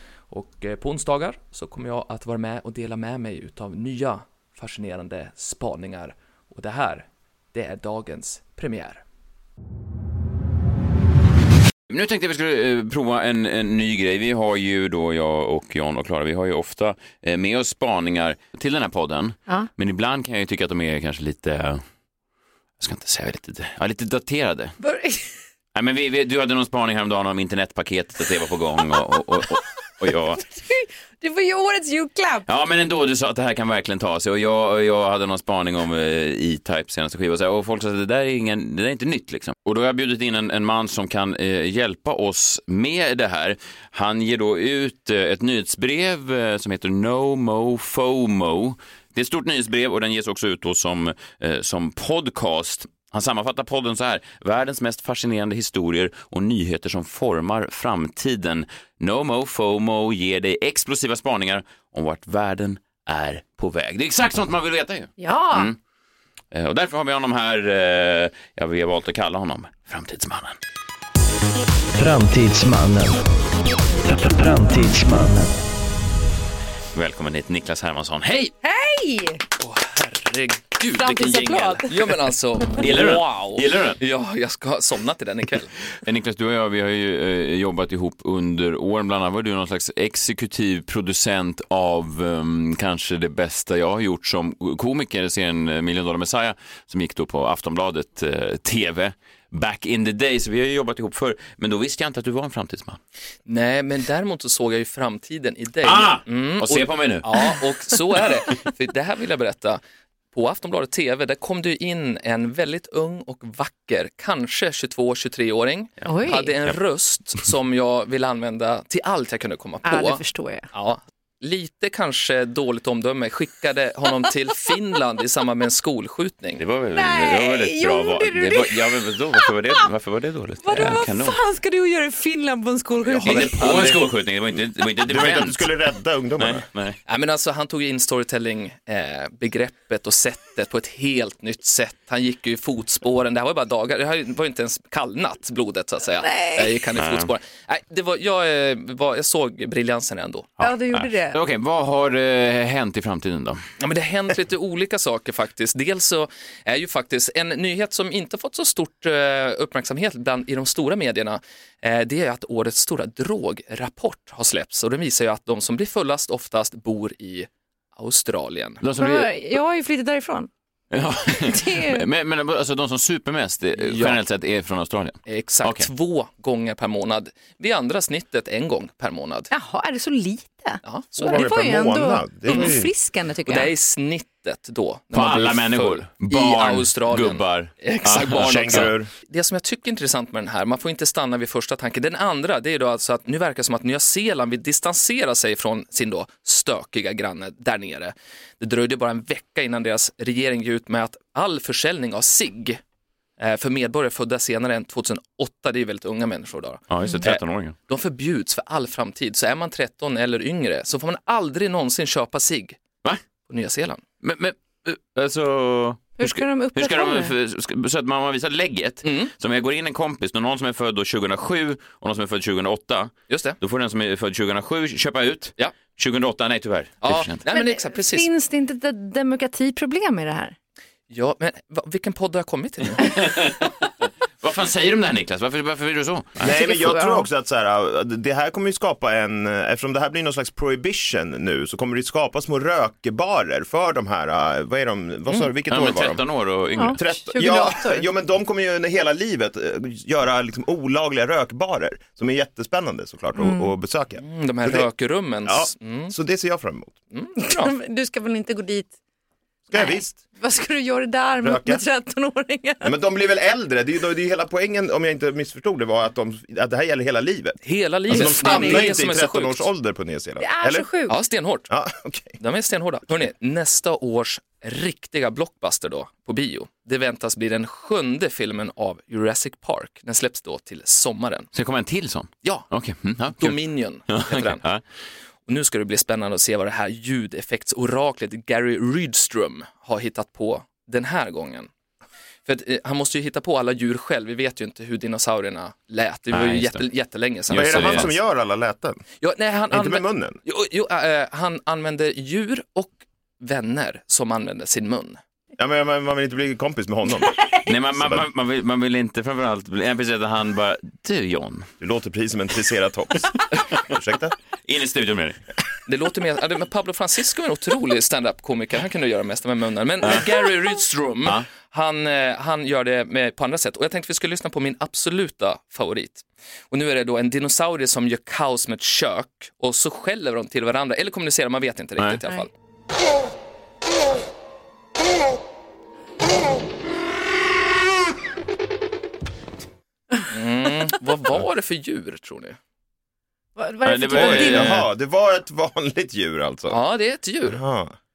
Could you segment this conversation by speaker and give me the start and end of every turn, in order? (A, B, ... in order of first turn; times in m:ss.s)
0:00.3-0:09.0 A
0:11.9-0:21.8 B
0:22.8-0:24.8 B
0:24.8-0:25.3 C
0:25.7-0:30.6 B
0:30.6-0:32.5 C
0:32.4-1:05.8 B
1:05.2-1:05.7 C
1:06.5-1:10.6 B
1:12.0-1:13.2 D
1:14.1-1:15.5 D
1:16.9-1:18.5 B
1:18.6-1:19.4 C
1:19.6-1:25.8 A
1:20.9-1:22.2 C
1:22.8-1:24.0 B
1:26.0-1:43.0 B
1:43.4-1:49.8 A
1:45.8-1:47.3 B
1:50.3-2:00.2 A
1:56.0-1:56.5 C
1:59.8-2:00.7 C
2:00.7-2:06.6 A
2:06.6-2:11.4 B
2:06.9-2:09.8 C
2:10.6-2:13.9 C
2:13.0-2:14.0 A
2:13.2-2:15.8 B
2:15.0-2:16.7 E
2:16.4-2:17.0 B
2:17.0-2:30.6 A
2:26.4-2:26.7 C
2:27.0-2:27.3 B
2:30.6-2:31.4 C
2:30.6-2:33.6 B
2:33.8-2:48.8 A
2:48.8-2:49.3 B
2:49.0-2:50.5 C
2:50.9-2:55.8 B
2:51.4-2:52.0 C
2:53.8-2:54.2 A
2:55.2-2:59.5 A
2:59.5-3:03.7 C
3:00.8-3:01.5 A
3:01.2-3:02.9 E
3:03.4-3:22.8 A
3:05.1-3:08.9 B
3:08.4-3:09.1 E
3:23.4-3:32.8 A
3:26.9-3:27.7 B
3:33.4-3:34.0 A
3:34.2-3:47.4 B
3:36.2-3:37.3 C
3:39.0-3:39.3 A
3:43.3-3:43.6 A
3:47.0-3:48.3 A
3:47.5-3:50.5 C
3:51.1-3:53.1 A
3:53.0-3:56.5 B
3:56.4-4:06.2 E
3:56.4-3:57.3 C
4:05.7-4:07.1 B
4:06.7-4:08.0 C
4:06.9-4:14.9 E
4:13.4-4:13.7 C
4:14.2-4:16.1 A
4:15.4-4:17.0 E
4:17.1-4:17.7 A
4:17.4-4:18.9 C
4:19.7-4:20.2 E
4:19.7-4:22.9 C
4:21.4-4:21.8 E
4:22.8-4:30.9 E
4:27.6-4:29.7 A
4:28.1-4:28.9 C
4:30.4-4:31.2 C
4:31.1-4:31.7 A
4:31.7-4:32.4 E
4:32.4-4:41.5 A
4:41.5-4:44.8 B
4:42.4-4:42.7 A
4:43.4-4:44.6 A
4:45.4-4:51.7 A
4:52.4-4:58.1 A
4:56.3-4:56.8 B
4:57.5-4:58.1 B
4:57.5-4:59.0 E
4:59.2-5:05.2 A
4:59.7-5:00.4 E
5:05.6-5:07.4 E
5:07.6-5:11.7 B
5:08.0-5:08.2 E
5:11.8-5:14.4 E
5:14.6-5:15.4 B
5:15.8-5:32.5 A
5:40.3-5:42.6 A
5:43.6-5:44.8 C
5:43.8-5:44.9 B
5:44.1-5:46.8 E
5:46.7-5:47.6 A
5:47.4-5:47.9 E